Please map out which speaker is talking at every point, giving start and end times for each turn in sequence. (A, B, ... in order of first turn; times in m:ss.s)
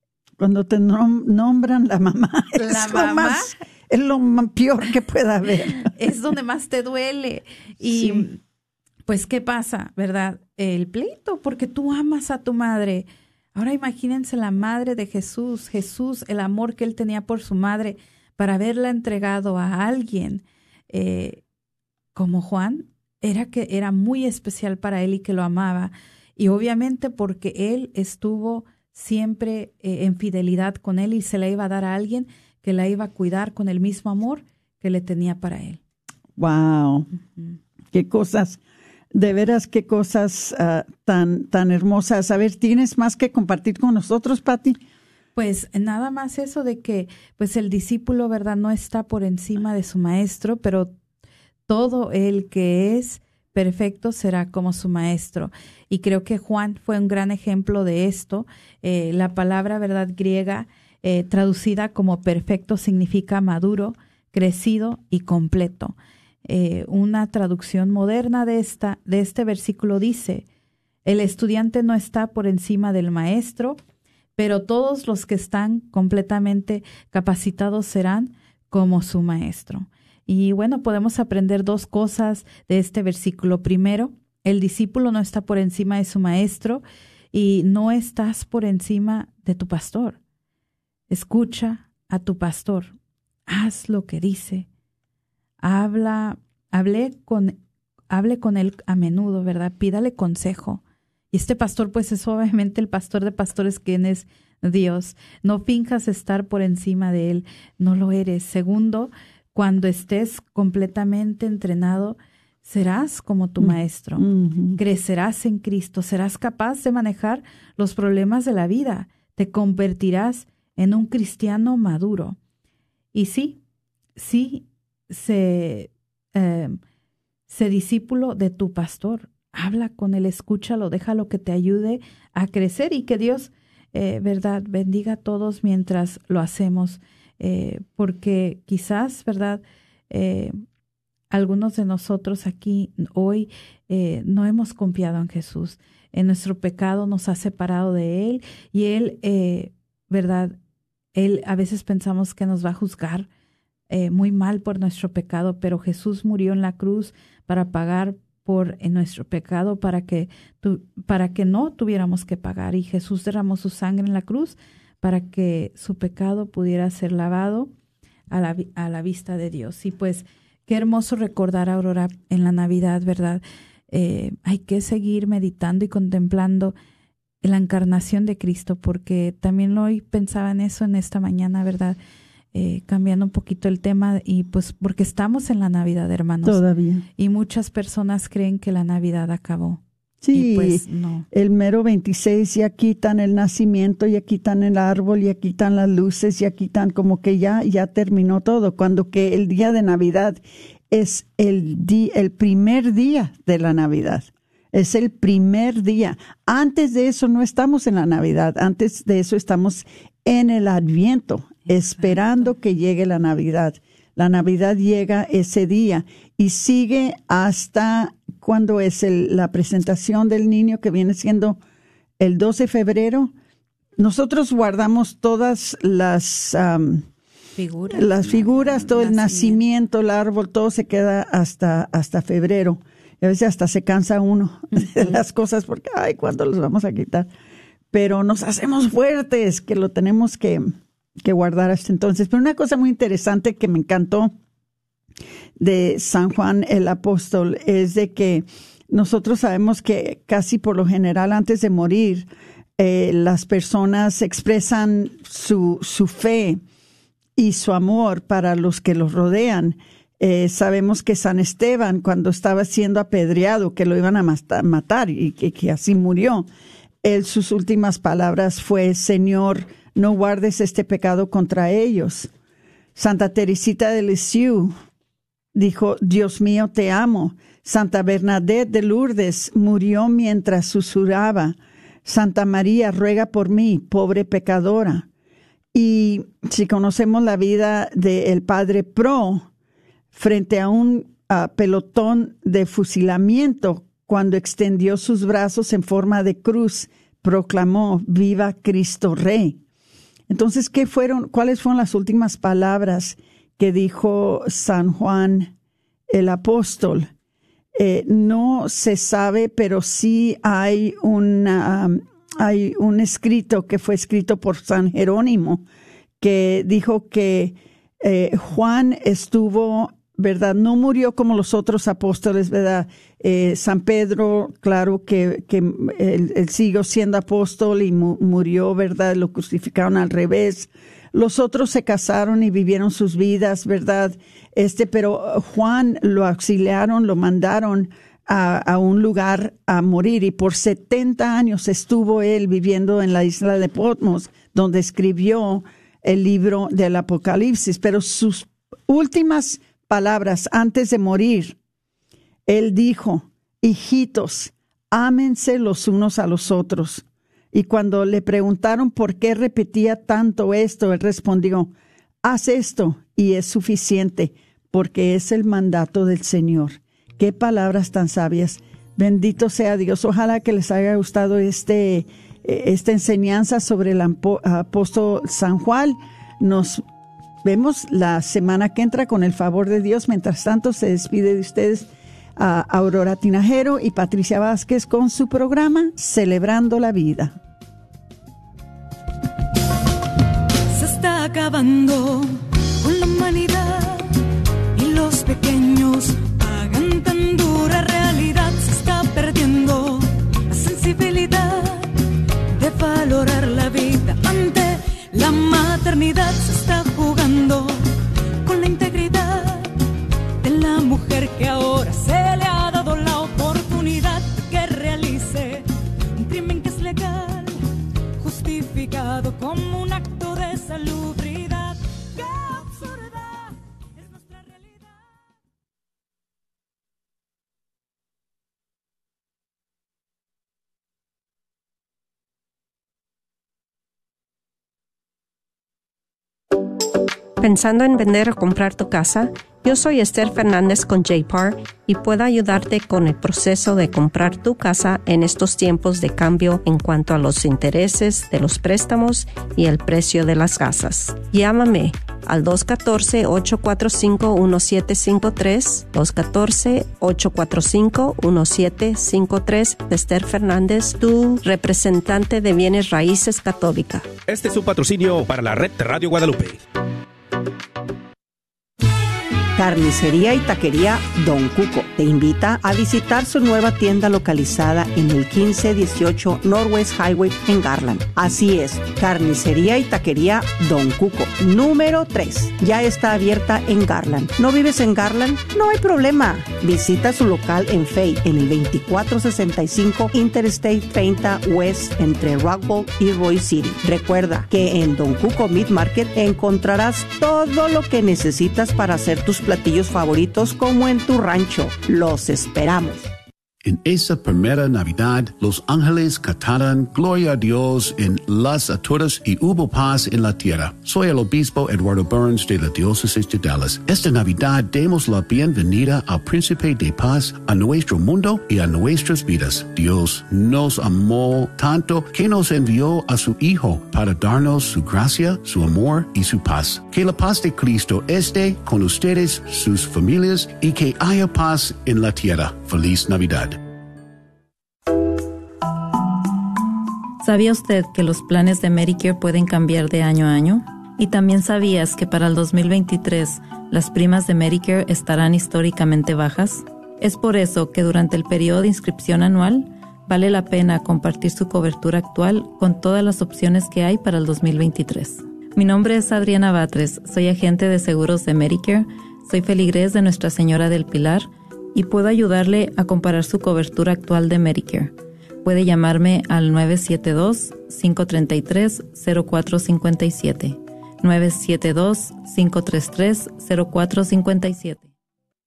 0:00.4-0:05.9 A
0:02.5-0:03.5 B
0:05.8-0:08.4 B
0:07.8-0:08.3 A
0:09.0-0:21.4 B
0:22.1-0:35.8 B
0:36.4-0:37.1 A
0:37.9-0:38.6 A
0:39.1-0:44.8 A
0:45.4-0:50.9 B
0:51.7-1:10.4 B
1:11.0-1:13.8 B
1:14.4-1:30.2 B
1:31.1-1:32.9 B
1:33.5-1:34.7 B
1:35.6-1:37.6 B
1:38.1-1:40.8 B
1:41.3-2:02.4 B
1:53.6-1:54.8 A
2:03.1-2:03.6 B
2:04.2-2:06.8 B
2:07.5-2:20.5 B
2:21.3-2:30.6 B
2:31.1-2:33.3 B
2:33.9-2:47.7 B
2:48.3-2:56.7 B
2:57.4-3:02.0 B
3:02.5-3:06.6 B
3:06.4-3:07.0 A
3:07.2-3:09.8 B
3:10.2-3:41.6 A
3:10.3-3:11.2 B
3:31.7-3:32.5 B
3:42.2-3:43.3 A
3:44.0-3:47.0 A
3:47.6-3:49.6 B
3:47.9-3:57.3 A
3:57.9-4:04.3 A
4:05.6-4:16.6 A
4:17.4-4:26.5 A
4:27.0-4:32.3 A
4:33.0-4:34.7 A
4:35.5-4:45.1 A
4:45.7-4:49.5 A
4:50.1-4:59.6 A
5:00.3-5:05.5 A
5:06.1-5:07.1 A
5:07.8-5:15.6 A
5:16.2-5:51.6 A
5:52.5-6:01.7 A
6:02.2-6:16.8 A
6:17.4-6:27.3 A
6:30.7-6:34.1 C
6:34.7-6:42.0 C
6:42.5-6:49.7 C
6:50.4-6:57.6 C
6:58.2-7:05.1 C
7:17.4-7:44.1 D
7:44.2-7:46.6 E
7:49.6-8:23.1 F
8:23.6-8:53.6 G
8:57.2-9:24.9 H
9:25.4-9:34.9 H